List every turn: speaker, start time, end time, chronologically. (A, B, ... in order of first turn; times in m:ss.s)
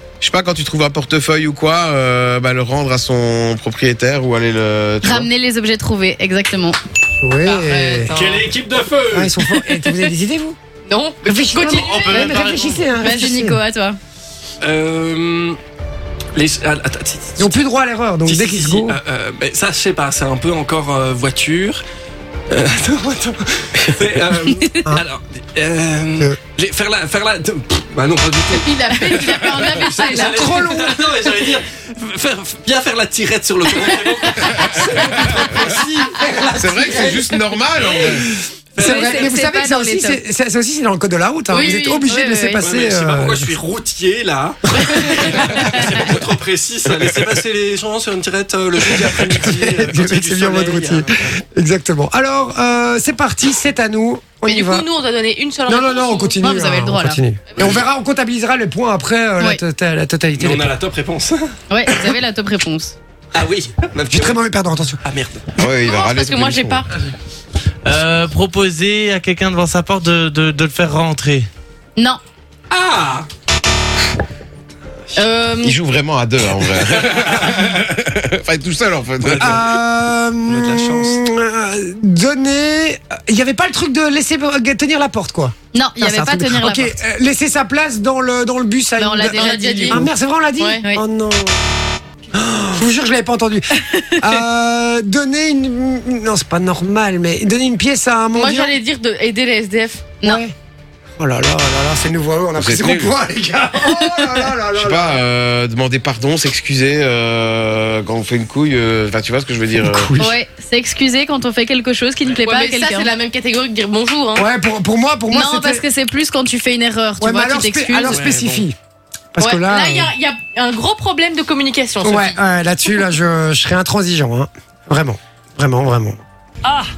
0:00.2-0:05.3 A
0:05.0-0:06.8 B
0:07.2-0:08.1 C
0:07.4-0:08.5 D
0:08.1-0:09.5 E
0:09.1-0:10.6 C
0:10.9-0:12.4 D
0:11.2-0:13.6 C
0:11.7-0:12.8 F
0:13.0-0:14.0 B
0:14.6-0:15.6 E
0:16.3-0:17.6 E
0:17.4-0:19.0 C
0:18.2-0:21.8 E
0:22.5-0:37.2 E
0:28.6-0:30.6 B
0:28.7-0:30.2 D
0:30.1-0:31.1 C
0:36.5-0:38.4 A
0:37.9-0:38.2 E
0:38.7-0:39.3 E
0:38.8-0:43.5 C
0:38.8-0:40.2 B
0:41.5-0:42.6 B
0:41.5-0:41.9 D
0:42.6-0:51.4 E
0:44.8-0:45.2 C
0:45.6-0:45.8 B
0:49.0-0:54.8 C
0:54.4-0:56.4 D
0:55.7-1:00.7 C
0:56.4-0:57.2 B
0:57.6-0:57.8 E
1:00.4-1:02.1 E
1:01.7-1:02.9 B
1:03.3-1:04.4 E
1:04.1-1:05.0 C
1:05.0-1:05.5 E
1:05.6-1:06.8 A
1:05.8-1:06.9 D
1:07.8-1:11.5 F
1:12.7-1:13.3 E
1:15.1-1:15.8 D
1:15.6-1:19.6 A
1:19.2-1:19.8 E
1:19.4-1:31.7 C
1:20.4-1:21.2 E
1:25.7-1:27.0 B
1:29.0-1:30.1 B
1:29.3-1:30.9 D
1:32.3-1:38.7 C
1:33.8-1:34.2 B
1:38.3-1:40.2 D
1:40.2-1:40.5 C
1:41.2-1:45.2 C
1:42.6-1:43.1 A
1:44.7-1:50.1 A
1:49.8-1:50.4 C
1:50.2-1:53.1 B
1:52.3-1:54.5 D
1:54.3-1:55.8 C
1:55.3-1:58.2 B
1:57.2-1:58.7 C
1:58.1-1:58.6 E
1:59.3-2:00.1 C
1:59.4-2:02.4 D
2:02.0-2:06.2 C